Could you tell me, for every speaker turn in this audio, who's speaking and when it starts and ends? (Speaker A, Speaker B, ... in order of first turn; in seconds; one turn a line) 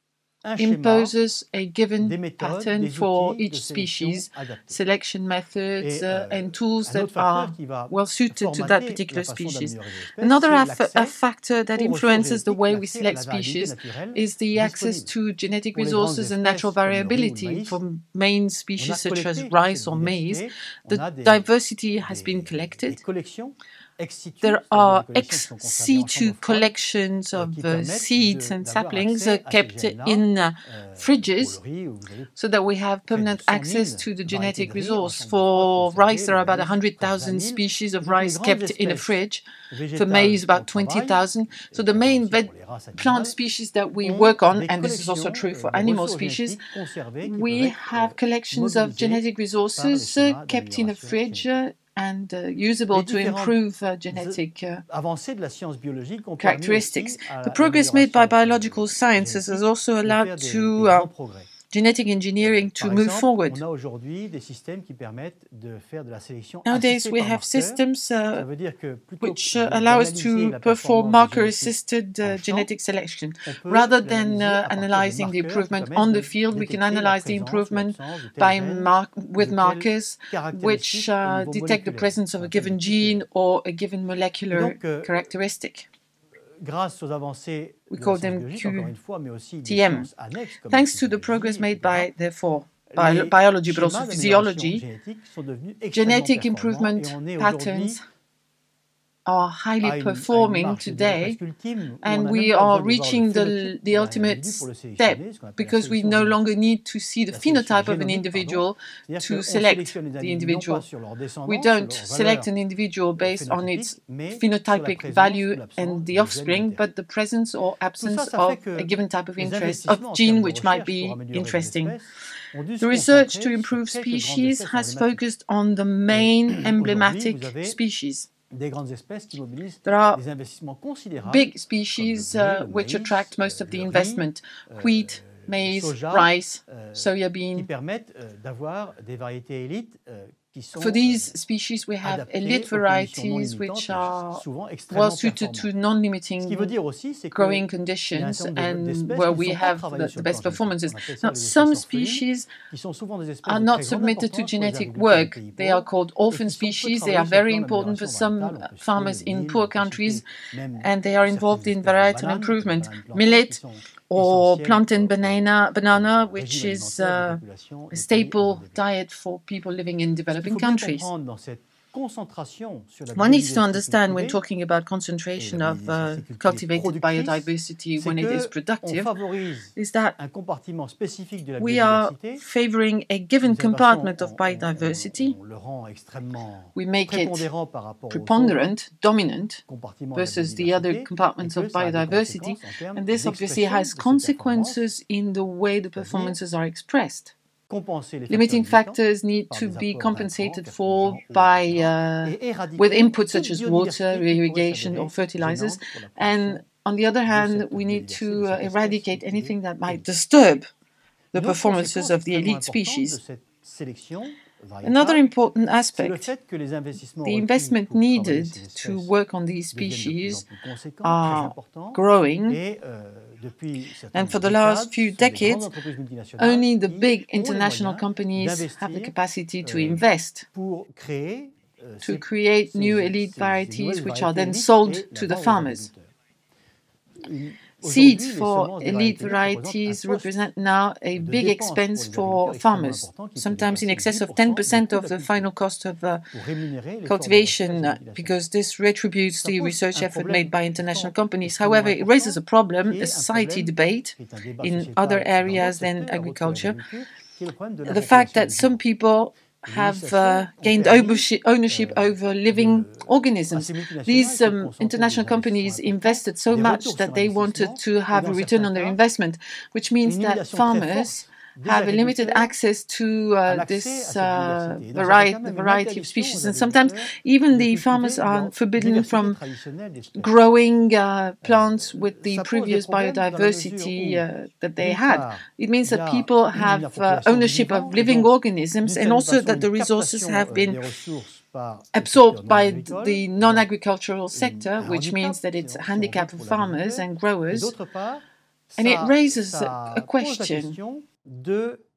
Speaker A: 0.4-1.1
Speaker B: 0.6-23.0
Speaker A: 2.0-4.8
Speaker A: 5.8-11.2
Speaker A: 11.7-15.1
Speaker A: 15.7-17.8
Speaker A: 18.8-21.5
Speaker A: 22.0-26.7
Speaker B: 24.4-31.6
Speaker A: 27.3-32.3
Speaker B: 32.4-46.6
Speaker A: 33.1-39.2
Speaker A: 39.7-43.4
Speaker A: 44.0-49.2
Speaker B: 47.2-54.8
Speaker A: 49.8-51.5
Speaker A: 52.9-53.6
Speaker A: 54.1-61.5
Speaker B: 56.4-61.1
Speaker B: 61.7-63.6
Speaker A: 62.4-67.8
Speaker B: 66.6-68.4
Speaker A: 68.3-72.7
Speaker B: 69.2-85.9
Speaker A: 73.5-83.2
Speaker A: 84.5-85.3
Speaker A: 86.6-92.1
Speaker B: 87.9-88.9
Speaker B: 89.7-90.1
Speaker B: 90.7-94.8
Speaker A: 92.9-98.0
Speaker B: 95.9-98.0
Speaker B: 99.2-101.4
Speaker A: 99.8-106.4
Speaker B: 102.0-110.8
Speaker A: 107.3-112.5
Speaker B: 111.5-122.0
Speaker A: 113.2-116.8
Speaker A: 118.0-125.2
Speaker B: 122.8-128.3
Speaker A: 126.1-127.8
Speaker A: 128.5-141.3
Speaker B: 129.8-130.2
Speaker B: 131.2-137.7
Speaker B: 140.8-146.7
Speaker A: 142.0-145.7
Speaker A: 146.4-168.8
Speaker B: 147.3-152.5
Speaker B: 153.4-160.2
Speaker B: 160.8-167.4
Speaker B: 167.9-171.1
Speaker A: 170.3-174.4
Speaker B: 173.1-179.2
Speaker A: 175.4-182.4
Speaker B: 179.7-180.2
Speaker B: 181.6-185.3
Speaker A: 183.4-188.7
Speaker B: 186.7-187.5
Speaker B: 188.1-189.6
Speaker A: 189.7-194.9
Speaker B: 190.1-197.3
Speaker A: 196.0-196.4
Speaker A: 197.7-206.6
Speaker B: 198.3-210.7
Speaker A: 207.3-210.0
Speaker B: 211.3-213.2
Speaker A: 211.3-215.3
Speaker B: 214.8-216.3
Speaker A: 215.9-219.1
Speaker B: 217.2-220.4
Speaker A: 219.7-236.1
Speaker B: 221.0-222.6
Speaker B: 224.1-225.7
Speaker B: 226.4-230.5
Speaker B: 232.0-235.9
Speaker A: 237.2-240.5
Speaker B: 237.8-246.3
Speaker A: 241.2-245.5
Speaker A: 246.3-248.4
Speaker B: 247.0-256.8
Speaker A: 249.4-258.8
Speaker B: 257.8-279.4
Speaker A: 259.6-269.0
Speaker A: 270.0-272.5
Speaker A: 273.4-280.4
Speaker B: 280.1-290.8
Speaker A: 281.4-284.3
Speaker A: 284.8-293.7
Speaker B: 291.9-297.7
Speaker A: 294.3-301.8
Speaker B: 298.8-300.8